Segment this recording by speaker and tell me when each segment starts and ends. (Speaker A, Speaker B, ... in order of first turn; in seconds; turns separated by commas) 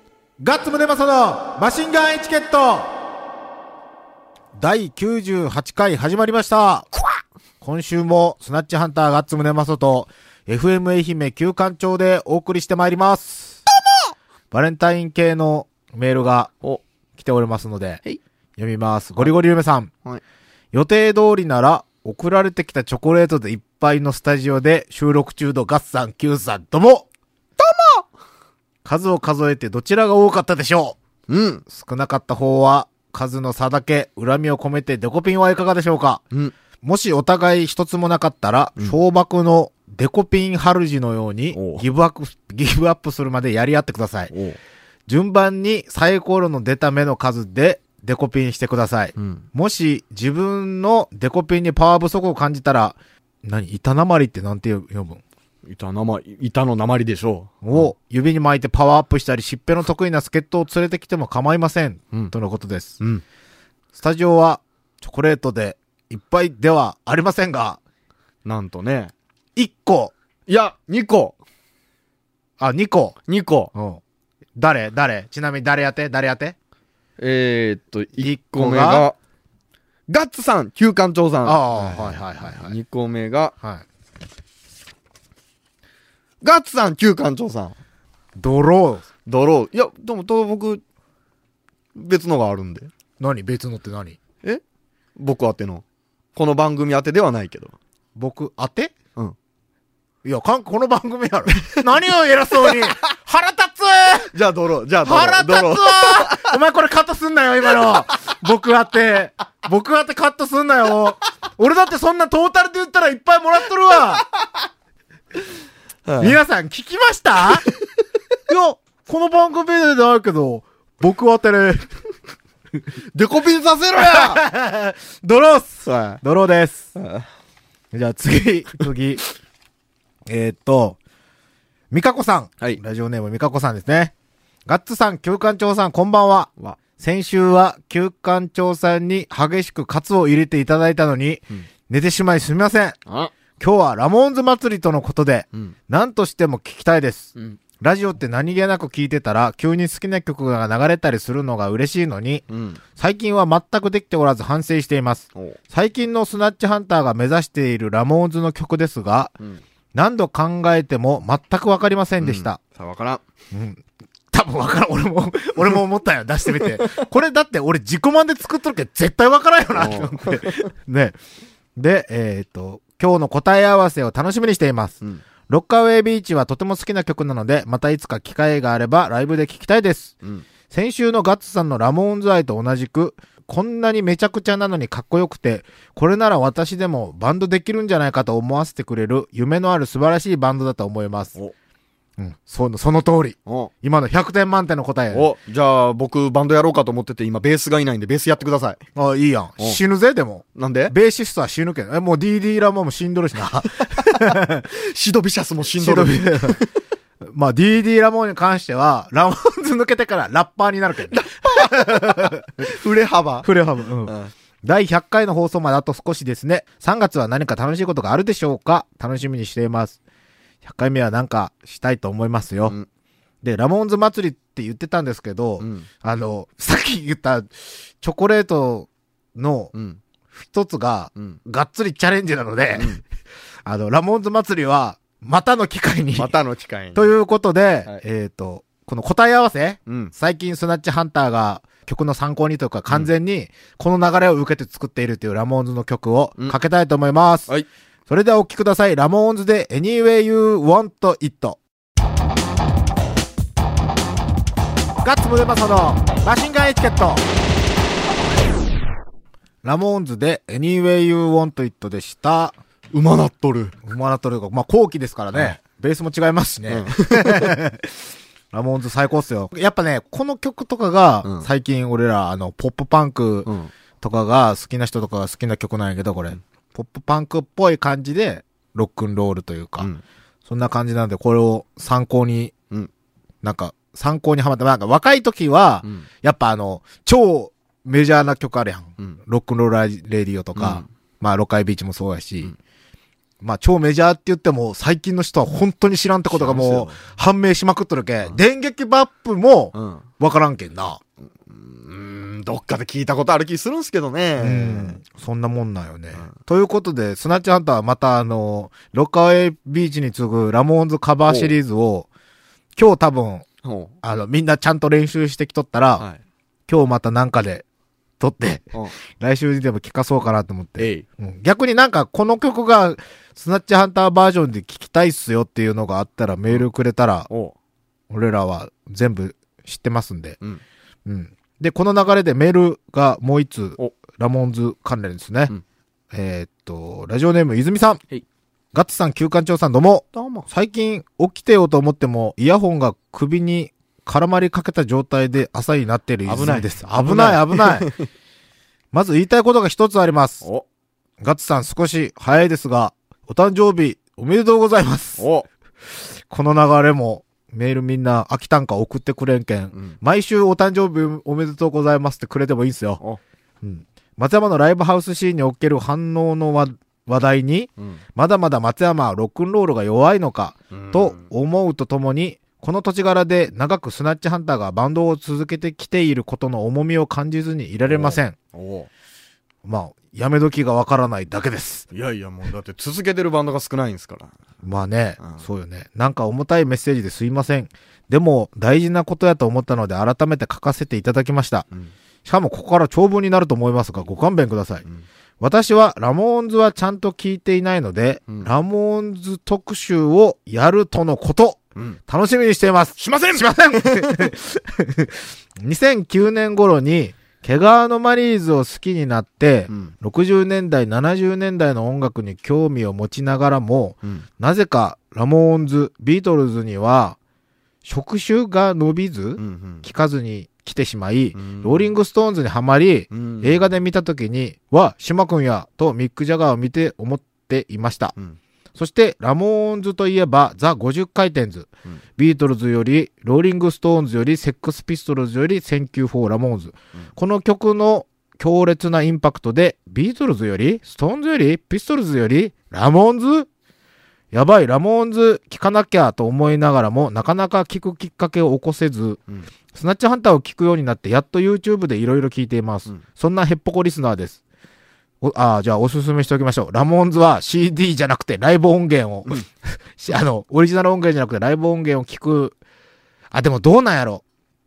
Speaker A: 0.4-3.0, Speaker A: 4.5-6.9, Speaker A: 7.6-13.6, Speaker A: 14.5-16.5, Speaker A: 17.1-18.0, Speaker A: 18.6-19.9, Speaker A: 20.7-27.1, Speaker B: 27.6-28.1, Speaker A: 28.8-31.0, Speaker B: 31.3-31.6, Speaker A: 31.7-36.2, Speaker A: 36.8-44.3, Speaker B: 41.5-41.8, Speaker B: 44.3-44.6, Speaker A: 45.1-55.2, Speaker B: 49.1-49.5, Speaker B: 55.6-57.9, Speaker A: 57.6-63.0, Speaker A: 63.9-67.8, Speaker B: 68.4-69.1, Speaker A: 69.5-70.1, Speaker B: 70.5-71.4, Speaker A: 72.6-73.2, Speaker B: 73.3-73.7, Speaker A: 73.7-74.0, Speaker A: 74.5-76.5, Speaker B: 77.2-79.2, Speaker A: 78.2-79.1, Speaker B: 80.1-83.5, Speaker A: 81.4-82.8, Speaker B: 86.4-87.8, Speaker A: 88.4-89.1, Speaker B: 89.2-90.8, Speaker B: 91.9-92.9, Speaker A: 93.2-94.2, Speaker B: 95.2-95.8, Speaker B: 96.3-97.8, Speaker A: 98.2-98.9, Speaker A: 100.2-104.3, Speaker B: 101.5-101.8, Speaker B: 104.3-106.6, Speaker A: 105.0-114.2, Speaker B: 116.0-116.4, Speaker A: 116.2-117.7, Speaker A: 118.5-121.9, Speaker B: 123.1-124.4, Speaker A: 124.0-126.9, Speaker B: 125.8-126.2, Speaker B: 126.9-127.2, Speaker A: 127.9-129.2, Speaker A: 130.2-131.0, Speaker A: 131.9-134.1, Speaker A: 134.7-143.0, Speaker B: 143.1-143.3, Speaker A: 143.6-159.4, Speaker B: 152.5-152.8, Speaker A: 159.9-162.6, Speaker B: 162.2-163.2, Speaker A: 163.5-171.2, Speaker B: 169.8-170.7, Speaker A: 171.8-191.3, Speaker A: 192.2-195.3, Speaker B: 193.4-193.7, Speaker B: 195.1-198.8, Speaker A: 198.9-204.7, Speaker B: 200.6-200.9, Speaker B: 203.8-206.7, Speaker A: 205.8-206.6, Speaker A: 207.2-212.7, Speaker B: 211.1-213.5, Speaker A: 213.4-220.0, Speaker B: 214.1-214.3, Speaker A: 220.6-222.8, Speaker A: 223.4-229.7, Speaker B: 225.6-225.9, Speaker B: 229.7-230.0, Speaker A: 230.3-233.0, Speaker B: 232.7-233.0, Speaker A: 233.7-236.3, Speaker B: 236.2-237.1, Speaker A: 236.9-247.5, Speaker B: 239.9-240.1, Speaker A: 248.1-251.6, Speaker A: 255.0-257.2, Speaker A: 259.6-262.6, Speaker B: 262.9-263.8, Speaker A: 263.8-273.5, Speaker B: 266.7-267.6, Speaker B: 273.4-273.7, Speaker A: 274.0-279.9, Speaker A: 280.4-282.5, Speaker A: 283.4-292.5, Speaker B: 290.5-290.9, Speaker A: 293.4-301.0, Speaker B: 296.3-297.0, Speaker B: 299.7-300.0, Speaker B: 301.4-305.0, Speaker A: 304.4-312.1, Speaker B: 311.3-311.6, Speaker A: 312.8-313.5, Speaker B: 313.6-313.9, Speaker A: 314.0-316.1, Speaker A: 316.7-317.6, Speaker A: 318.2-327.3, Speaker B: 320.8-321.1, Speaker B: 327.3-327.5, Speaker A: 328.1-330.4, Speaker A: 331.1-335.5, Speaker A: 336.1-338.0, Speaker A: 338.7-347.9, Speaker B: 340.1-340.5, Speaker B: 346.2-348.1, Speaker A: 348.9-350.4, Speaker A: 351.2-355.2, Speaker B: 355.2-355.5, Speaker A: 356.3-363.0, Speaker A: 363.6-378.4, Speaker B: 370.7-371.3, Speaker B: 377.9-378.9, Speaker A: 379.6-381.9, Speaker B: 381.9-384.3, Speaker A: 384.6-391.7, Speaker A: 392.2-394.8, Speaker A: 395.4-417.2, Speaker B: 403.0-404.3, Speaker A: 417.8-428.1, Speaker B: 419.4-419.9, Speaker B: 421.3-421.9, Speaker B: 423.1-423.7, Speaker A: 428.8-443.5, Speaker A: 444.3-449.2, Speaker A: 449.7-454.4, Speaker A: 455.2-462.6, Speaker A: 463.3-464.2